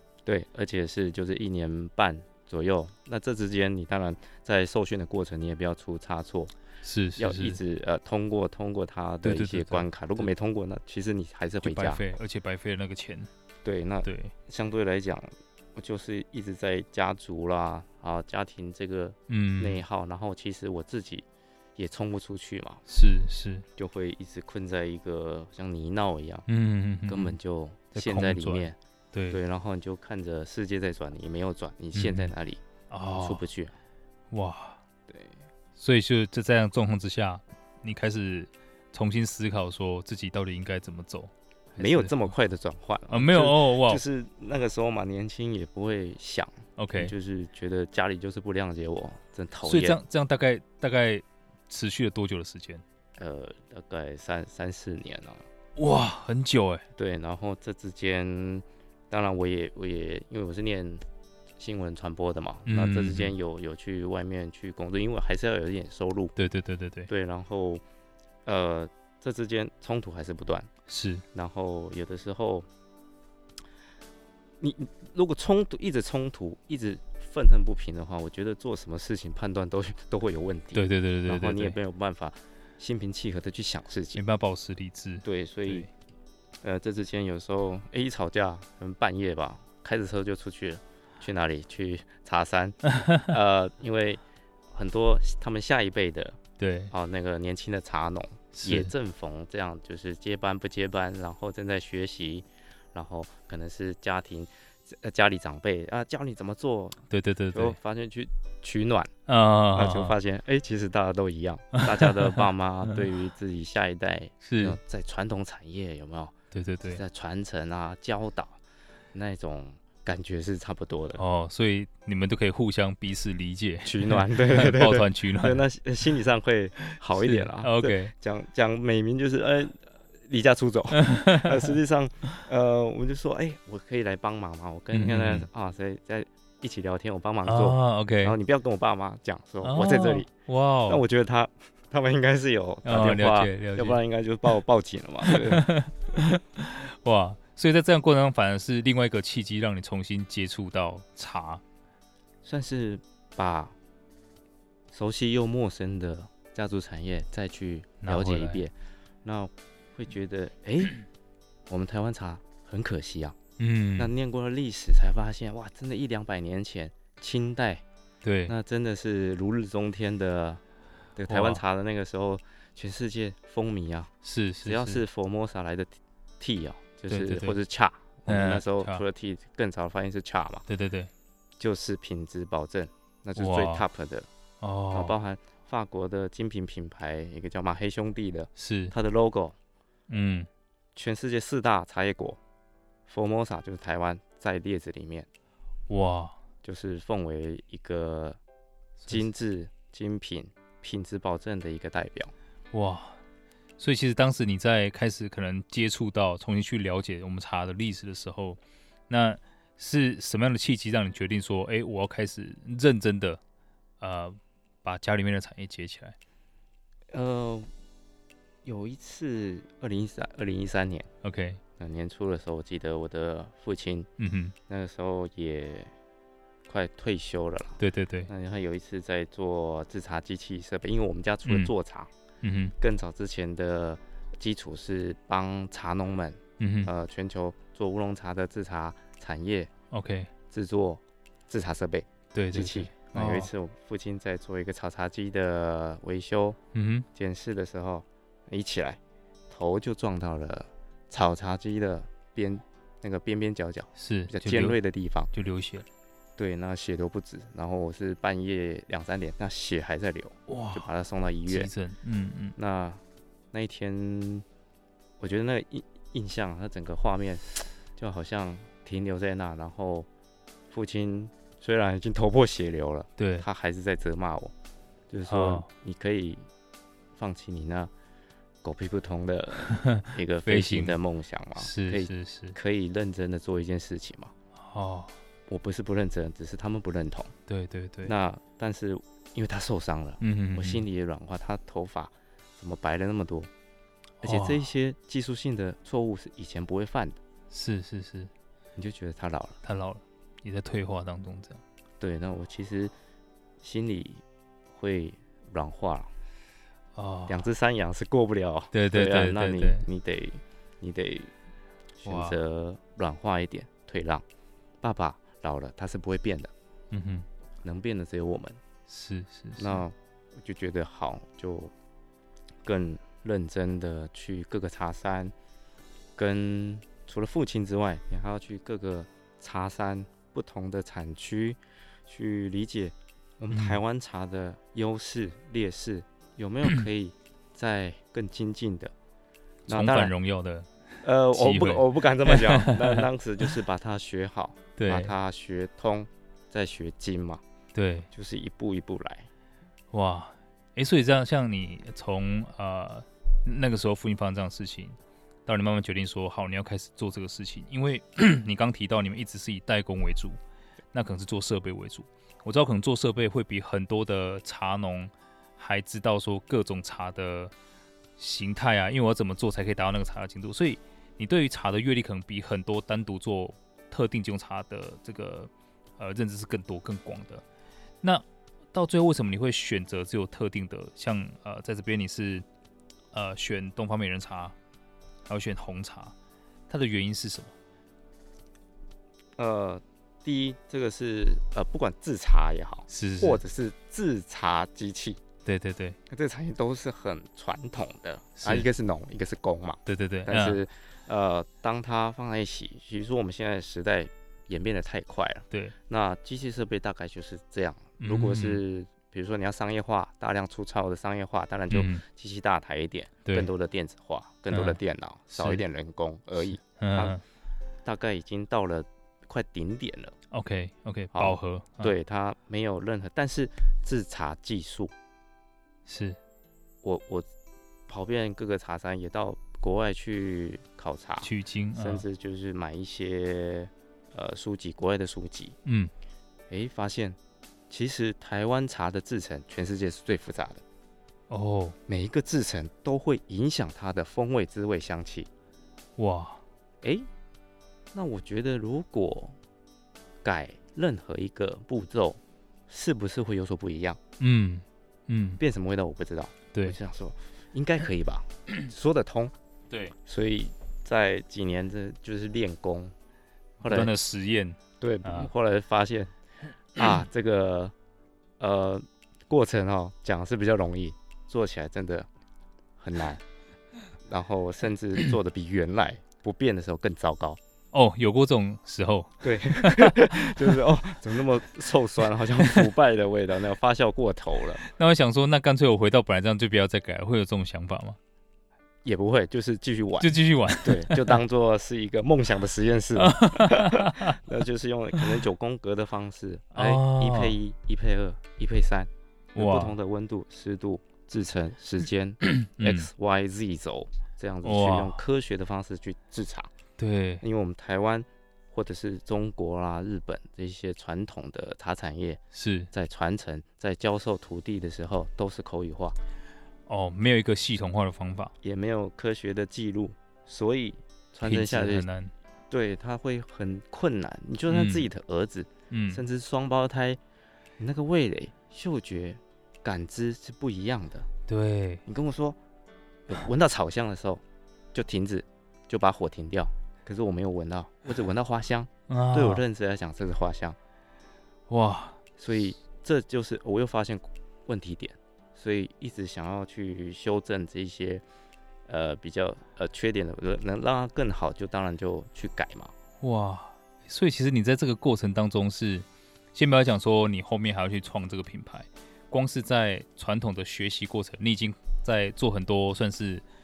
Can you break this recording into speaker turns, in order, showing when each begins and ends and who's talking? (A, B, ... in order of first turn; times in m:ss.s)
0:00.2-0:06.5 A
0:06.8-0:07.6 B
0:07.2-0:12.0 A
0:09.2-0:10.2 B
0:11.6-0:13.3 B
0:13.6-0:22.8 A
0:14.0-0:14.3 B
0:19.3-0:19.8 B
0:22.9-0:23.6 B
0:23.8-0:26.4 A
0:26.5-0:27.4 B
0:27.0-0:28.8 A
0:27.9-0:29.4 B
0:29.3-0:32.6 A
0:31.9-0:32.3 B
0:32.9-0:33.4 B
0:33.2-0:33.7 A
0:34.3-0:34.8 B
0:35.1-0:35.4 A
0:35.8-0:42.3 B
0:41.8-0:50.0 A
0:43.1-0:44.0 B
0:46.8-0:47.1 B
0:49.6-0:52.8 B
0:53.2-0:55.4 A
0:55.8-0:56.8 B
0:57.0-1:01.0 A
1:01.6-1:06.3 A
1:02.6-1:03.3 B
1:06.4-1:07.1 B
1:07.1-1:07.8 A
1:08.4-1:10.7 A
1:10.9-1:11.2 B
1:11.3-1:12.7 A
1:14.6-1:24.2 A
1:20.7-1:21.8 B
1:24.1-1:25.9 B
1:25.2-1:25.9 A
1:26.6-1:34.2 A
1:32.9-1:33.3 B
1:34.7-1:36.4 A
1:36.6-1:36.9 B
1:36.9-1:47.0 A
1:38.5-1:38.9 B
1:47.1-1:47.8 B
1:47.5-1:49.1 A
1:49.3-1:50.1 B
1:49.7-1:56.3 A
1:51.8-1:52.4 B
1:54.4-1:54.8 B
1:56.5-1:57.0 B
1:56.9-1:58.6 A
1:59.1-2:01.2 A
2:01.2-2:05.6 B
2:03.8-2:20.3 A
2:06.9-2:08.1 B
2:11.0-2:11.6 B
2:14.9-2:15.5 B
2:17.4-2:18.4 B
2:19.6-2:21.0 B
2:20.9-2:25.6 A
2:22.8-2:24.0 B
2:25.2-2:31.6 B
2:32.4-2:33.7 A
2:34.9-2:38.7 A
2:38.0-2:38.6 B
2:39.2-2:41.0 A
2:41.7-2:43.4 A
2:43.6-2:44.1 B
2:44.0-2:47.8 A
2:48.2-2:48.5 B
2:48.5-2:50.6 A
2:51.2-2:54.1 A
2:51.3-2:51.6 B
2:54.2-2:55.0 B
2:54.6-3:00.6 A
2:57.1-2:57.6 B
2:58.3-2:59.0 B
3:00.7-3:01.1 B
3:01.6-3:04.3 A
3:03.4-3:03.8 B
3:04.6-3:05.1 B
3:04.9-3:09.6 A
3:08.6-3:08.9 B
3:10.1-3:10.5 B
3:10.9-3:12.4 A
3:13.1-3:15.3 A
3:15.9-3:16.4 B
3:16.6-3:18.4 A
3:19.1-3:22.3 A
3:22.7-3:23.2 B
3:23.8-3:33.4 B
3:34.0-3:36.2 B
3:37.1-3:37.7 A
3:38.6-3:41.1 A
3:41.2-3:41.6 B
3:41.8-3:44.1 A
3:44.2-3:44.5 B
3:44.7-3:45.9 A
3:46.7-3:52.1 A
3:47.8-3:48.3 B
3:51.4-3:51.7 B
3:52.4-3:52.7 B
3:52.8-3:59.7 A
3:56.6-3:56.9 B
3:59.9-4:00.3 B
4:00.5-4:06.6 A
4:02.3-4:03.5 B
4:06.7-4:07.0 B
4:07.1-4:15.3 A
4:14.0-4:14.8 B
4:15.3-4:15.9 B
4:16.4-4:21.7 A
4:20.5-4:20.8 B
4:21.5-4:22.6 B
4:22.6-4:24.4 A
4:25.2-4:30.1 A
4:30.7-4:34.5 A
4:33.2-4:33.4 B
4:35.1-4:36.5 A
4:35.3-4:35.7 B
4:37.2-4:37.9 A
4:38.6-4:44.3 A
4:39.6-4:41.0 B
4:41.6-4:42.6 B
4:44.6-4:45.1 B
4:45.5-4:47.3 A
4:47.5-4:48.1 B
4:48.0-4:53.5 A
4:50.2-4:50.8 B
4:54.2-4:54.6 B
4:54.2-4:57.2 A
4:57.5-4:58.3 B
4:58.8-4:59.6 A
4:59.6-5:01.6 B
5:02.0-5:02.9 A
5:03.6-5:06.1 A
5:06.9-5:07.5 B
5:07.3-5:11.3 A
5:08.7-5:09.8 B
5:12.0-5:14.2 A
5:12.0-5:12.4 B
5:14.8-5:16.5 A
5:16.9-5:17.2 B
5:17.6-5:18.6 A
5:18.9-5:19.8 B
5:19.6-5:21.7 A
5:22.6-5:25.3 A
5:26.2-5:38.9 A
5:39.7-5:40.1 A
5:39.7-5:43.0 B
5:41.0-5:47.4 A
5:44.8-5:45.1 B
5:47.7-5:48.1 B
5:48.1-5:49.3 A
5:49.9-6:00.4 B
6:00.9-6:07.5 B
6:08.2-6:17.4 B
6:18.0-6:22.4 B
6:23.1-6:24.5 B
6:25.3-6:26.1 B
6:26.7-6:27.5 B
6:29.4-6:35.2 A
6:32.9-6:33.4 B
6:35.4-6:36.0 B
6:36.1-6:57.2 A
6:38.4-6:38.7 B
6:39.8-6:40.6 B
6:48.0-6:48.6 B
6:51.7-6:52.0 B
6:54.5-6:54.8 B
6:55.3-6:55.6 B
6:56.4-6:57.2 B
6:57.8-7:00.2 A
7:00.3-7:01.9 B
7:01.1-7:04.9 A
7:05.8-7:06.2 B
7:06.8-7:07.3 A
7:07.9-7:15.6 A
7:11.2-7:12.0 B
7:15.6-7:15.9 B
7:16.5-7:17.2 A
7:17.7-7:20.6 A
7:21.3-7:21.8 B
7:21.9-7:25.3 A
7:26.0-7:26.4 B
7:26.8-7:27.1 A
7:27.9-7:29.4 A
7:30.2-7:34.0 A
7:34.2-7:35.4 B
7:35.4-7:39.3 A
7:39.7-7:39.9 B
7:40.0-7:42.9 A
7:43.6-7:43.9 A
7:43.6-7:45.3 B
7:44.8-7:46.1 A
7:46.8-7:47.7 A
7:48.4-7:52.1 A
7:52.8-7:53.2 A
7:54.0-7:57.4 A
7:57.7-8:00.3 B
7:59.2-8:04.6 A
8:04.6-8:08.0 B
8:08.8-8:26.5 A
8:10.0-8:11.2 B
8:13.0-8:14.2 B
8:16.5-8:17.4 B
8:19.3-8:19.7 B
8:22.2-8:22.9 B
8:24.4-8:25.0 B
8:26.8-8:27.2 B
8:27.2-8:36.0 A
8:32.3-8:32.7 B
8:36.7-8:38.3 B
8:38.4-8:41.8 A
8:41.2-8:42.1 B
8:42.5-8:47.0 A
8:44.5-8:44.8 B
8:45.7-8:46.0 B
8:47.6-8:51.1 A
8:51.3-8:51.8 B
8:51.8-8:52.4 A
8:53.1-8:54.2 A
8:54.7-9:00.6 A
8:58.9-8:59.4 B
9:01.5-9:02.0 B
9:02.2-9:08.0 A
9:08.7-9:12.7 A
9:13.0-9:23.2 B